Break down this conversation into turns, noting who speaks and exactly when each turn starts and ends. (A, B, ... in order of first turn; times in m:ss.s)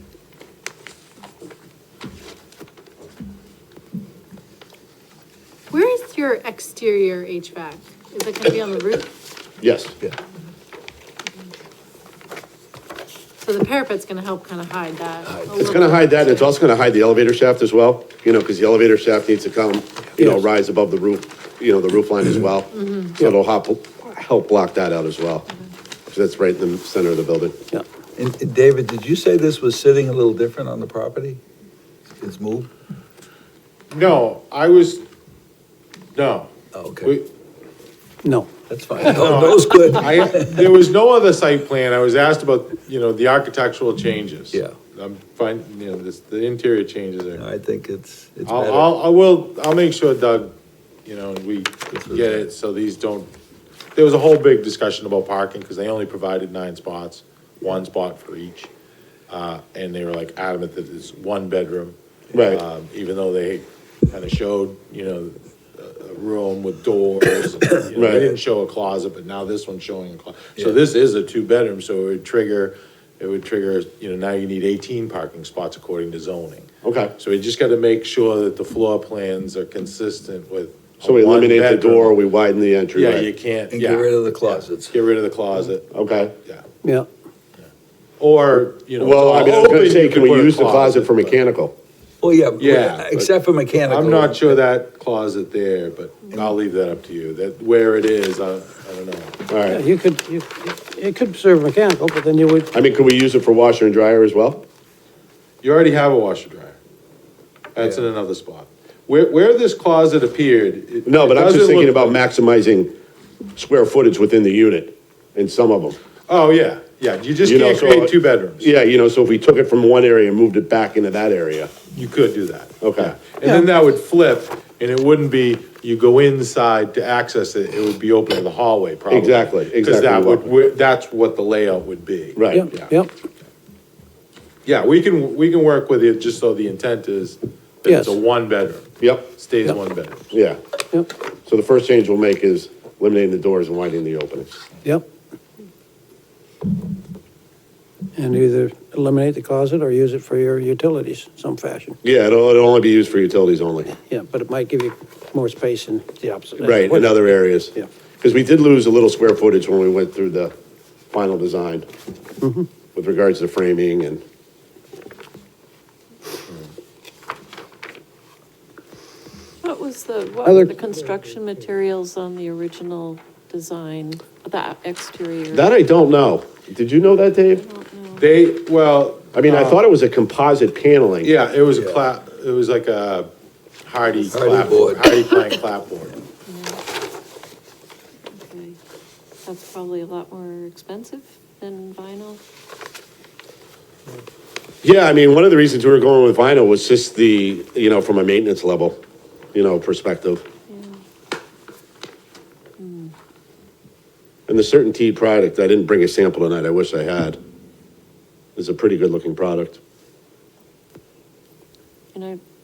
0:05.7-0:09.1 A
0:09.6-0:10.0 B
0:13.4-0:16.4 A
0:15.2-0:15.9 C
0:15.6-0:25.4 B
0:22.7-0:23.1 A
0:26.1-0:27.6 B
0:28.2-0:31.4 C
0:32.2-0:32.7 C
0:33.9-0:35.0 D
0:36.1-0:36.5 D
0:36.7-0:37.1 C
0:38.2-0:39.1 E
0:38.7-0:40.7 C
0:39.0-0:47.4 D
0:47.4-0:48.9 C
0:48.5-0:50.5 D
0:51.0-0:53.3 D
0:51.9-0:52.4 C
0:54.0-0:58.7 D
0:59.3-1:22.2 D
1:02.3-1:02.6 B
1:07.9-1:08.2 B
1:16.8-1:17.1 B
1:21.0-1:23.3 B
1:22.9-1:25.9 D
1:23.7-1:24.9 C
1:25.9-1:26.3 B
1:28.2-1:31.4 D
1:29.0-1:31.7 B
1:32.2-1:34.6 C
1:32.6-1:33.1 D
1:33.8-1:39.4 D
1:36.2-1:36.5 F
1:39.5-1:39.8 B
1:39.6-1:42.7 E
1:42.7-1:44.7 B
1:45.6-1:46.8 D
1:47.7-1:52.2 D
1:51.0-1:52.9 B
1:53.6-1:56.0 B
1:56.3-1:58.7 D
1:57.4-2:01.7 B
2:01.9-2:12.9 D
2:02.8-2:03.1 B
2:09.1-2:10.6 B
2:12.4-2:12.7 B
2:12.5-2:13.1 E
2:14.7-2:20.3 D
2:17.9-2:18.2 E
2:19.0-2:19.3 B
2:20.3-2:20.6 B
2:21.5-2:24.6 B
2:28.2-2:32.0 E
2:32.0-2:33.9 B
2:34.1-2:37.9 E
2:36.6-2:40.5 B
2:41.1-2:41.9 B
2:42.4-2:42.7 E
2:42.9-2:44.2 B
2:49.6-2:55.7 F
2:55.5-2:57.6 B
2:57.5-2:58.3 F
2:58.2-2:59.9 D
2:59.3-3:01.3 B
3:01.2-3:03.3 D
3:01.7-3:02.1 C
3:03.8-3:06.2 D
3:04.3-3:05.1 C
3:06.5-3:06.8 F
3:08.3-3:08.8 F
3:09.4-3:12.4 F
3:14.8-3:19.0 B
3:19.5-3:20.4 B
3:20.7-3:21.0 F
3:22.8-3:23.1 F
3:24.5-3:27.4 B
3:28.6-3:29.8 B
3:32.1-3:32.4 F